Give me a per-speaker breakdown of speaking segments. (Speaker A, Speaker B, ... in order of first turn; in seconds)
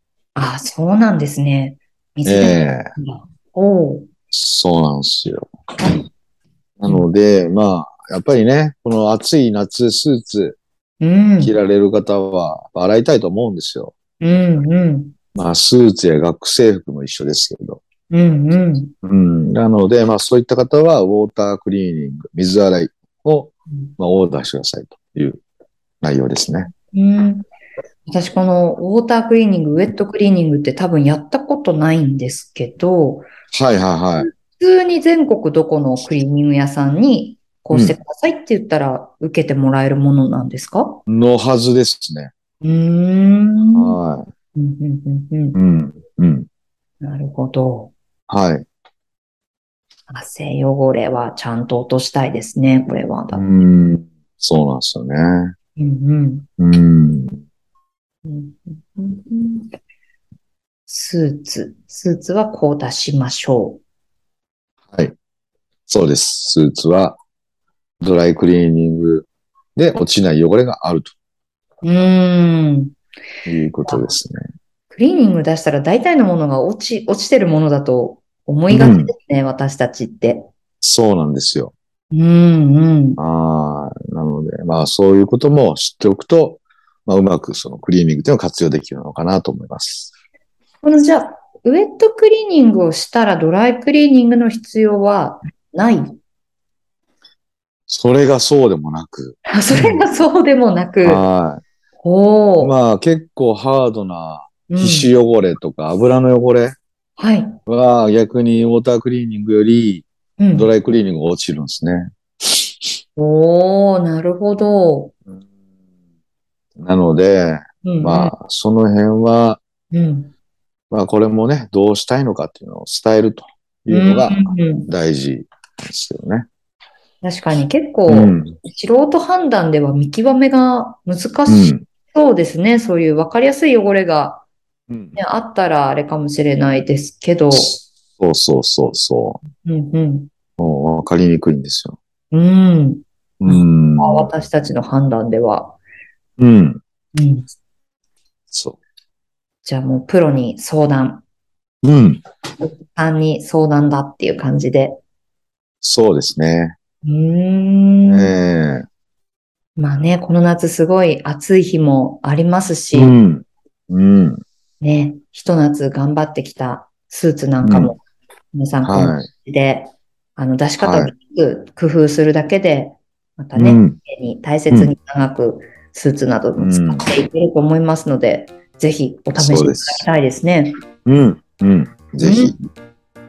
Speaker A: 0.3-4.1, 11.0-11.5, 14.2-15.1, 18.1-18.9, 26.9-27.4, 28.1-33.3, 34.2-41.0, 42.6-44.0, 44.5-45.6, 47.0-47.9, 50.1-53.5, 55.8-56.5, 58.2-59.7, 60.9-63.8, 71.8-73.0, 73.9-74.2, 74.9-80.5, 82.1-83.2, 90.8-96.2, 99.5-101.2, 102.0-102.8, 104.7-105.1, 107.2-107.6, 110.4-110.7, 113.2-115.1, 117.8-118.3, 119.9-120.3, 123.9-124.9, 127.2-134.5, 135.2-137.8, 139.6-140.3, 142.3-145.8, 147.2-147.5, 149.6-151.2, 152.6-155.0, 157.0-158.3, 159.8-163.2, 164.8-168.0, 168.5-180.8, 182.2-182.5
Speaker B: 2.2-2.9, 4.3-5.5, 6.8-10.6, 11.4-13.9, 15.3-17.8, 19.0-25.4, 26.0-26.7, 33.5-34.3, 37.7-38.0, 41.1-42.3, 43.7-44.3, 45.5-46.5, 48.3-48.6, 53.3-55.5, 56.6-57.4, 65.9-67.2, 68.0-71.1, 73.5-74.4, 78.7-79.1, 80.8-81.7, 83.2-90.1, 97.9-100.0, 101.0-101.6, 102.6-106.8, 107.7-112.6, 116.8-119.6, 120.9-126.5, 128.1-128.6, 131.5-131.8, 134.9-135.2, 137.5-139.4, 140.6-142.0, 143.4-144.3, 146.4-146.8, 148.5-148.8, 151.8-152.2, 155.8-156.8, 158.1-158.9, 162.9-164.4, 167.6-167.9, 168.8-169.3, 170.8-171.1, 173.6-174.0, 176.6-177.1, 179.3-180.1, 181.1-182.6